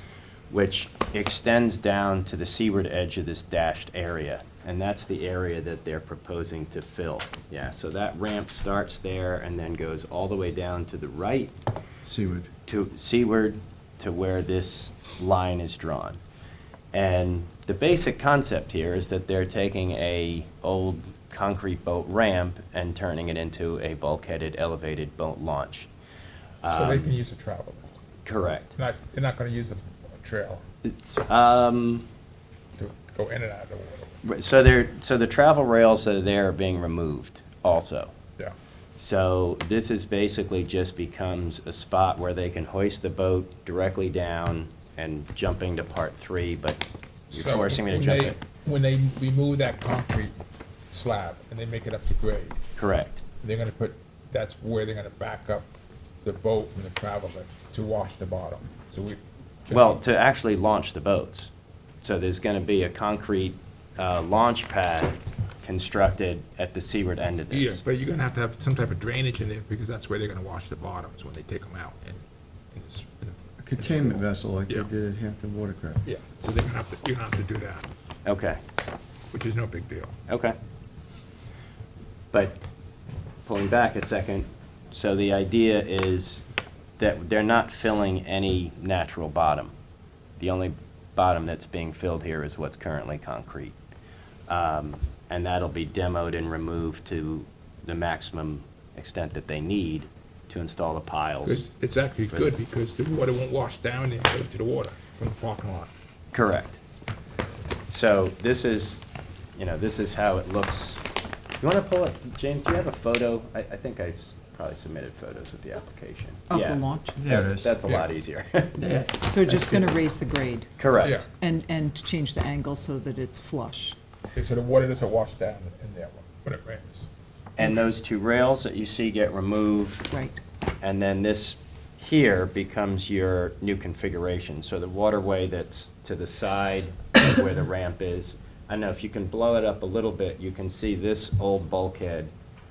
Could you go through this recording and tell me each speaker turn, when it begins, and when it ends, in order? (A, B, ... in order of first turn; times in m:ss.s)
0:00.5-0:11.5 A
0:12.0-0:12.5 B
0:12.6-0:16.2 A
0:16.9-0:25.9 A
0:26.6-0:27.2 A
0:26.6-0:28.0 C
0:28.2-0:28.7 A
0:28.7-0:30.6 C
0:30.8-0:32.1 A
0:32.8-0:34.1 C
0:34.2-0:38.1 A
0:39.0-0:48.4 A
0:47.3-0:50.4 C
0:50.9-0:52.6 C
0:52.8-0:53.2 A
0:53.4-0:55.6 C
0:56.2-1:00.0 C
0:59.7-1:01.5 A
1:02.0-1:07.8 A
1:07.5-1:12.2 C
1:12.7-1:14.9 C
1:13.6-1:16.0 B
1:16.0-1:17.9 C
1:18.2-1:18.6 A
1:19.3-1:20.1 C
1:20.3-1:20.6 A
1:22.3-1:22.6 A
1:23.4-1:26.4 A
1:27.0-1:29.7 A
1:30.4-1:33.8 A
1:34.5-1:41.6 A
1:41.4-1:45.9 C
1:46.3-1:46.8 A
1:47.9-1:51.0 A
1:51.6-1:58.8 A
1:56.5-1:57.2 D
1:57.2-1:57.7 B
1:58.8-1:59.8 B
1:59.2-2:00.7 D
2:00.8-2:01.2 A
2:01.3-2:04.0 D
2:04.3-2:07.1 C
2:07.6-2:10.1 A
2:10.1-2:10.4 D
2:10.8-2:22.3 A